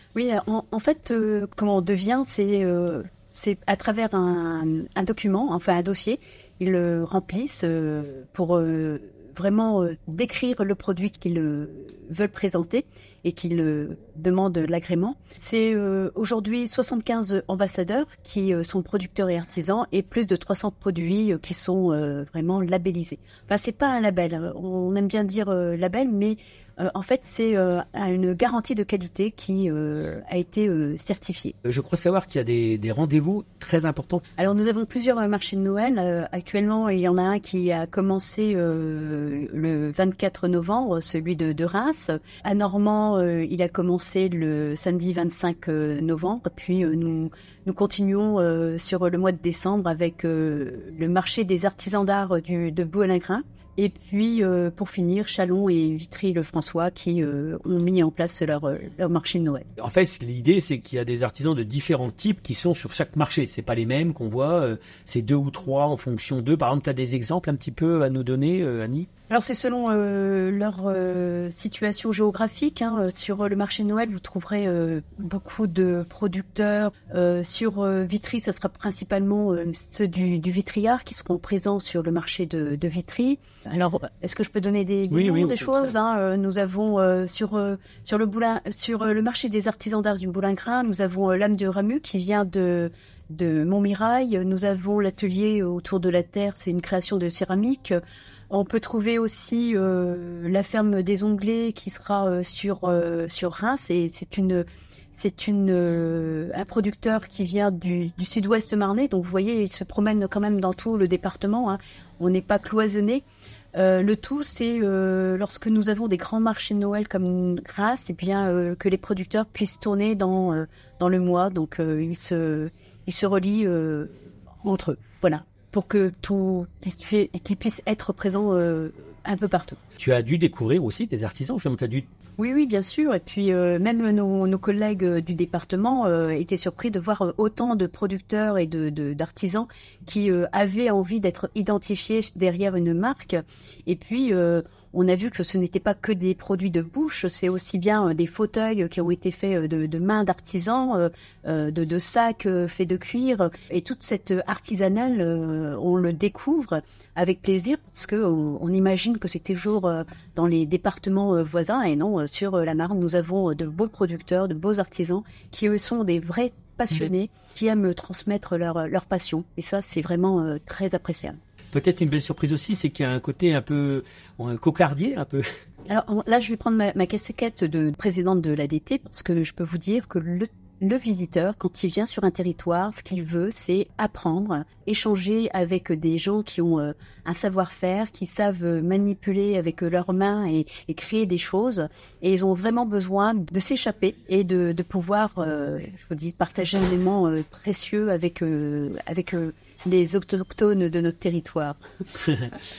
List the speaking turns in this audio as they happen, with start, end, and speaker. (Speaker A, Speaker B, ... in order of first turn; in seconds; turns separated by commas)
Speaker A: 0.1-31.6, Speaker B: 31.6-34.2, Speaker A: 34.4-59.6, Speaker B: 59.8-69.1, Speaker A: 69.3-98.0, Speaker B: 85.1-85.9, Speaker A: 98.5-129.8, Speaker B: 130.0-132.1, Speaker A: 132.4-171.4, Speaker B: 171.7-175.4, Speaker A: 175.9-201.8, Speaker B: 202.2-202.5